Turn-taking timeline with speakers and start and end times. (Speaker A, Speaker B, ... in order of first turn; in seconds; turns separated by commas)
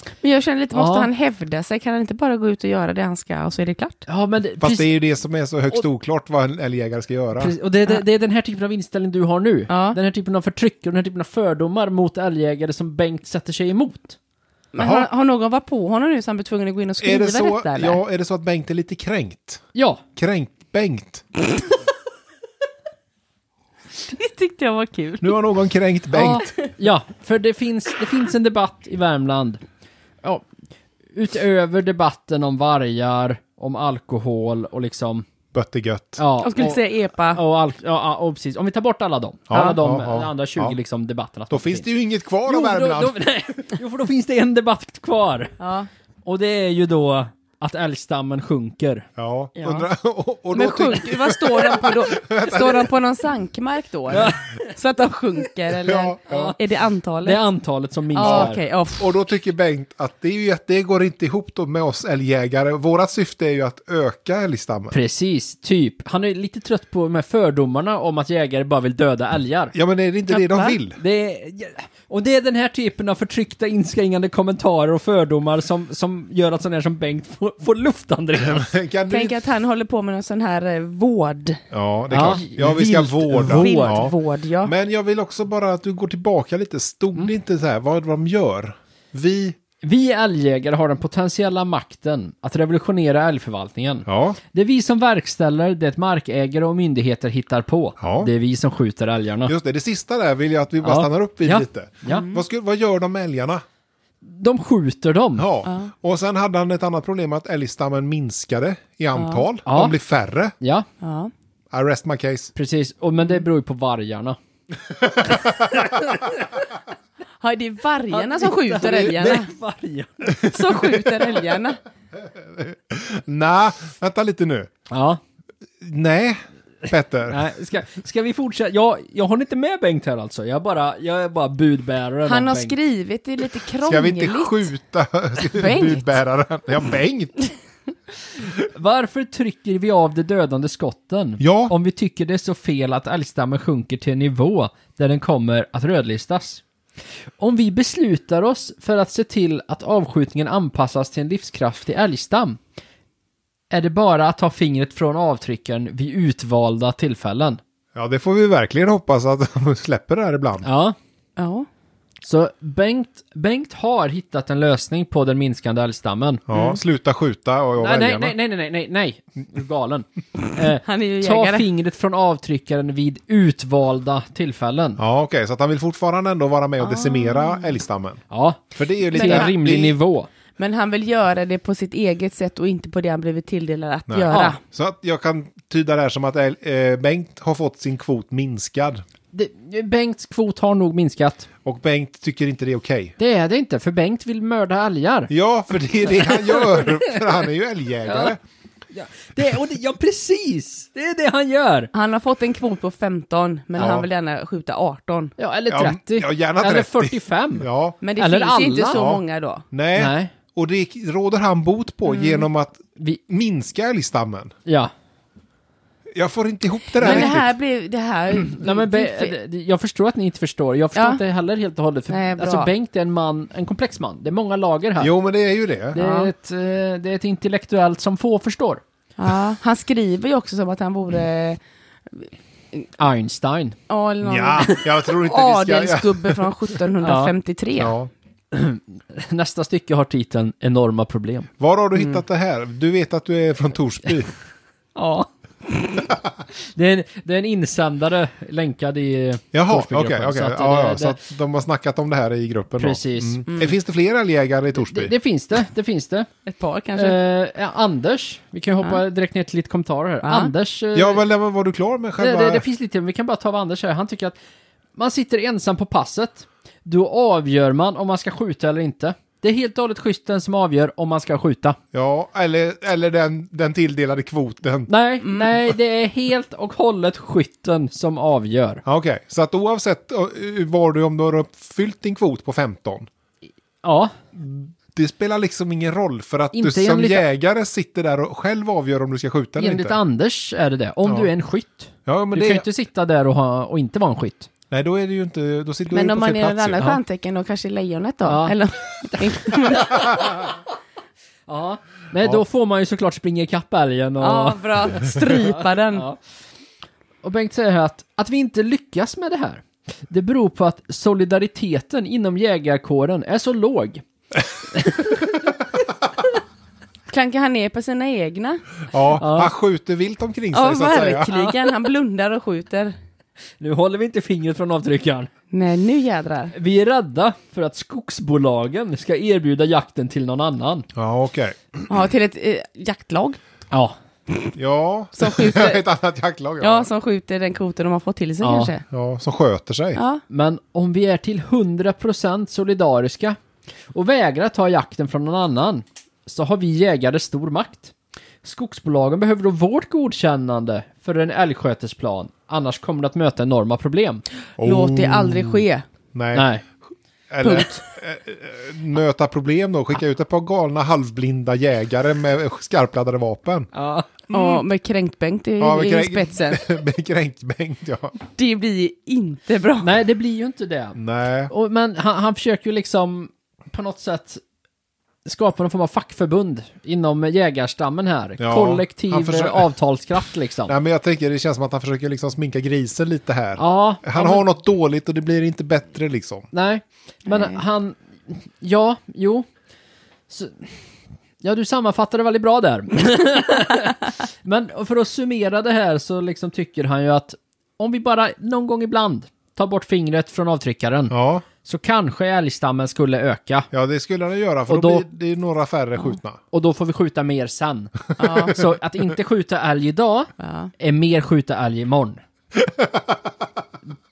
Speaker A: 0.2-4.0, Speaker B: 0.7-1.1, Speaker B: 4.1-4.9, Speaker C: 4.6-7.5, Speaker B: 7.4-14.2, Speaker A: 9.7-10.0, Speaker A: 14.7-18.0, Speaker C: 14.8-15.1, Speaker C: 17.0-19.6, Speaker B: 19.7-20.0, Speaker C: 20.1-21.2, Speaker A: 24.1-25.4, Speaker C: 25.2-26.5, Speaker B: 26.1-29.6, Speaker B: 31.1-35.3, Speaker C: 35.5-36.2, Speaker B: 36.2-41.9, Speaker A: 36.4-37.4, Speaker C: 39.5-40.8, Speaker C: 41.5-43.2, Speaker B: 42.4-45.5, Speaker A: 45.6-45.9, Speaker B: 46.2-49.1, Speaker C: 49.2-52.9, Speaker A: 49.6-49.9, Speaker A: 50.5-57.4, Speaker B: 54.1-54.7, Speaker C: 55.8-56.5, Speaker B: 56.3-56.6, Speaker B: 57.2-58.6, Speaker A: 58.1-59.1, Speaker C: 58.2-64.9, Speaker B: 64.9-69.7, Speaker C: 69.7-71.0, Speaker A: 70.3-70.7, Speaker B: 70.9-78.7, Speaker C: 78.4-79.3, Speaker A: 79.1-81.6, Speaker C: 81.7-89.6, Speaker B: 82.1-84.0, Speaker A: 83.3-84.7, Speaker B: 89.8-99.5, Speaker C: 94.1-94.4, Speaker C: 98.0-98.3, Speaker C: 99.5-103.6, Speaker B: 100.8-102.2, Speaker A: 102.1-102.4, Speaker B: 104.2-105.5, Speaker C: 105.4-110.5, Speaker A: 109.1-109.4, Speaker B: 109.7-110.0, Speaker B: 110.6-110.9, Speaker A: 111.0-111.3, Speaker C: 111.7-112.5, Speaker B: 112.5-114.4, Speaker C: 114.9-115.9, Speaker B: 115.3-116.7, Speaker A: 117.4-119.5, Speaker B: 118.1-120.5, Speaker A: 120.4-121.8, Speaker C: 122.2-124.7, Speaker B: 124.9-125.2, Speaker C: 125.8-127.4, Speaker B: 127.3-132.7, Speaker A: 132.2-134.7, Speaker C: 133.8-137.5, Speaker A: 135.4-136.1, Speaker B: 138.6-146.6, Speaker C: 141.4-141.7, Speaker B: 147.4-152.6, Speaker B: 153.7-157.6, Speaker C: 157.9-160.7, Speaker B: 160.6-160.9, Speaker A: 161.4-161.7, Speaker B: 162.2-166.4, Speaker C: 166.5-168.3, Speaker A: 166.5-166.8, Speaker B: 167.8-175.0, Speaker A: 170.7-171.7, Speaker C: 175.0-178.2, Speaker A: 176.8-177.7, Speaker B: 178.3-180.3, Speaker C: 178.7-180.0, Speaker A: 179.1-179.5, Speaker A: 180.6-184.6, Speaker C: 184.1-189.0, Speaker B: 184.3-184.6, Speaker B: 189.3-191.5, Speaker C: 191.6-193.2, Speaker B: 193.2-195.3, Speaker C: 195.3-198.4, Speaker B: 196.1-197.2, Speaker B: 198.0-198.3, Speaker B: 198.9-201.9, Speaker A: 201.9-205.3, Speaker C: 203.8-204.1, Speaker B: 205.4-209.0, Speaker C: 205.7-208.0, Speaker A: 208.0-209.6, Speaker C: 208.9-214.5, Speaker B: 209.9-210.3, Speaker A: 212.1-212.4, Speaker B: 214.7-214.9, Speaker C: 216.1-217.5, Speaker A: 217.0-219.3, Speaker B: 217.0-217.4, Speaker B: 218.4-225.1, Speaker A: 220.9-221.2, Speaker A: 222.1-222.7, Speaker C: 225.0-226.0, Speaker B: 225.9-228.8, Speaker A: 225.9-226.3, Speaker A: 229.2-231.6, Speaker A: 232.2-232.8, Speaker B: 233.0-233.8, Speaker A: 233.9-237.9, Speaker C: 234.2-236.4, Speaker B: 237.0-237.3, Speaker C: 237.8-238.1, Speaker B: 238.5-241.5, Speaker C: 241.6-244.3, Speaker B: 245.0-245.3, Speaker B: 246.7-251.2, Speaker C: 249.5-255.1, Speaker B: 252.8-253.4, Speaker B: 254.8-256.3, Speaker A: 256.4-257.2, Speaker B: 256.9-261.2, Speaker A: 260.2-260.5, Speaker C: 260.9-262.6, Speaker B: 262.2-264.4, Speaker B: 264.9-271.8, Speaker C: 271.9-274.9, Speaker B: 274.9-278.8, Speaker A: 275.2-275.5, Speaker C: 278.8-283.1, Speaker B: 283.8-284.1, Speaker C: 284.3-290.0, Speaker B: 286.5-287.2, Speaker B: 289.6-294.5, Speaker C: 291.0-291.3, Speaker C: 292.1-292.6, Speaker C: 294.7-296.9, Speaker A: 295.9-300.2, Speaker B: 298.2-300.5, Speaker B: 301.5-306.2, Speaker A: 304.2-306.1, Speaker B: 307.2-314.0, Speaker B: 314.7-315.4, Speaker A: 317.1-318.8, Speaker C: 318.9-321.4, Speaker B: 319.1-319.5, Speaker A: 320.5-322.9, Speaker B: 323.6-325.3, Speaker A: 325.5-326.5, Speaker B: 326.5-330.9, Speaker C: 330.9-331.6, Speaker A: 331.9-333.4, Speaker C: 334.5-336.9, Speaker A: 335.2-335.8, Speaker A: 336.6-338.8, Speaker B: 338.4-338.7, Speaker C: 338.9-340.0, Speaker A: 339.9-340.2, Speaker B: 340.3-343.4, Speaker B: 343.9-354.2, Speaker C: 354.6-355.6, Speaker A: 354.6-355.8, Speaker C: 356.1-356.5, Speaker B: 356.3-356.6, Speaker C: 357.3-363.7, Speaker A: 357.4-357.8, Speaker B: 363.7-364.1, Speaker C: 364.3-364.6, Speaker A: 364.3-366.7, Speaker C: 365.6-368.1, Speaker A: 368.2-369.9, Speaker B: 369.8-371.0, Speaker C: 370.9-371.5, Speaker B: 371.5-374.4, Speaker B: 375.2-380.7, Speaker C: 378.4-379.7, Speaker C: 380.7-386.5, Speaker B: 383.6-384.4, Speaker B: 386.5-389.5, Speaker A: 387.3-387.6, Speaker B: 390.3-390.7, Speaker B: 391.4-403.7, Speaker C: 401.1-401.4, Speaker C: 403.7-406.4, Speaker B: 404.7-405.0, Speaker B: 406.5-412.2, Speaker A: 408.2-408.6, Speaker A: 410.4-410.7, Speaker C: 412.6-413.5